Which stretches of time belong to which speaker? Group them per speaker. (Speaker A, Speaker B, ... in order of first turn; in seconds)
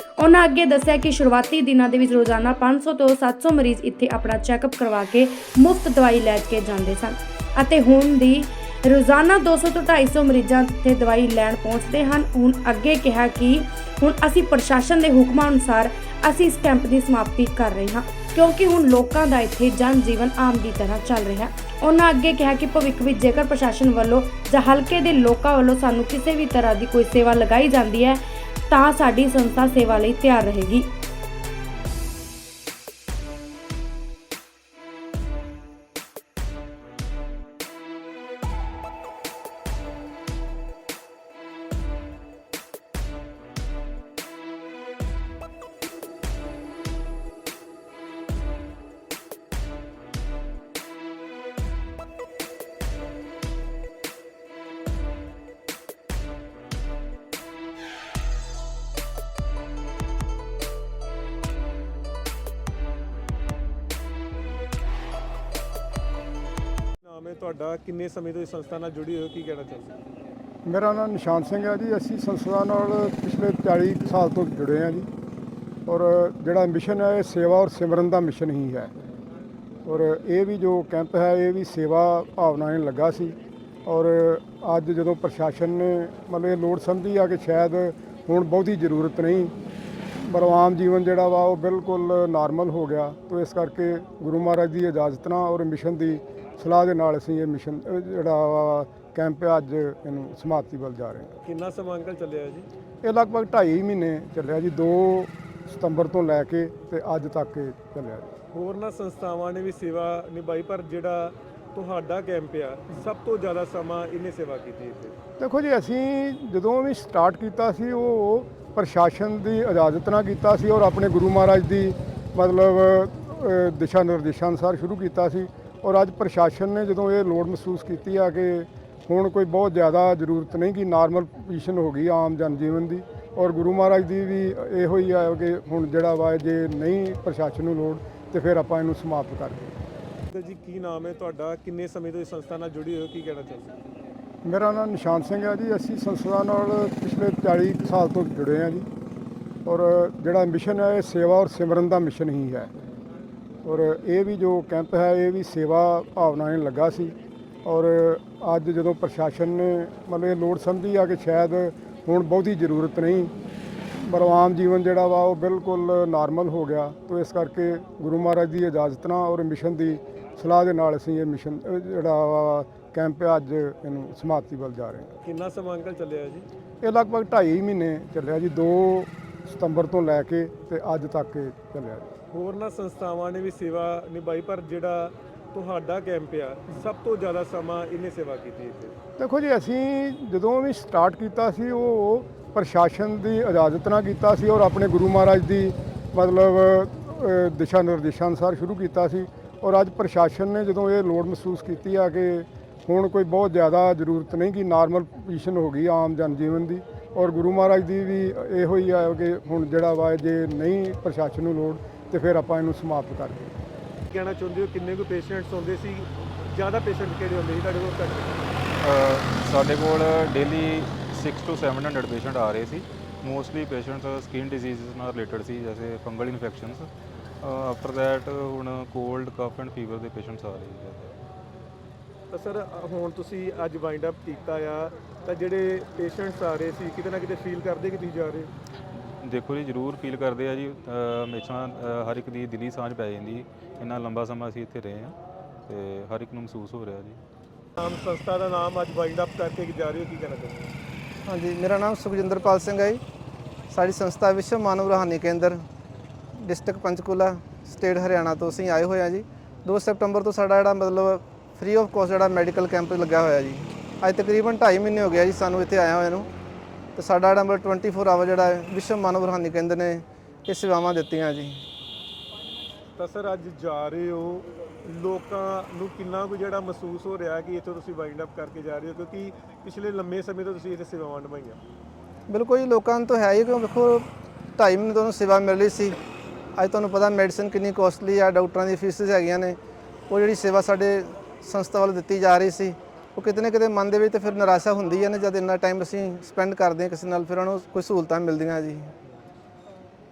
Speaker A: 0.2-30.9
Speaker B: 67.0-69.9, 101.5-102.7, 108.5-115.1, 140.3-143.7, 175.2-176.4, 182.3-188.9, 214.1-218.3, 232.3-238.5, 247.8-250.6, 272.9-281.6
Speaker C: 70.6-75.1, 75.9-78.9, 79.8-89.5, 90.1-101.3, 103.0-108.3, 115.4-139.7, 144.4-148.9, 149.7-152.7, 153.6-163.3, 163.9-175.1, 176.8-182.1, 189.2-213.5
Speaker D: 218.8-226.9, 227.4-231.1, 238.9-245.2, 245.7-247.2
Speaker E: 251.2-253.0, 253.7-255.6, 256.4-266.3, 266.9-271.6, 282.3-286.0, 286.6-289.6, 290.1-298.9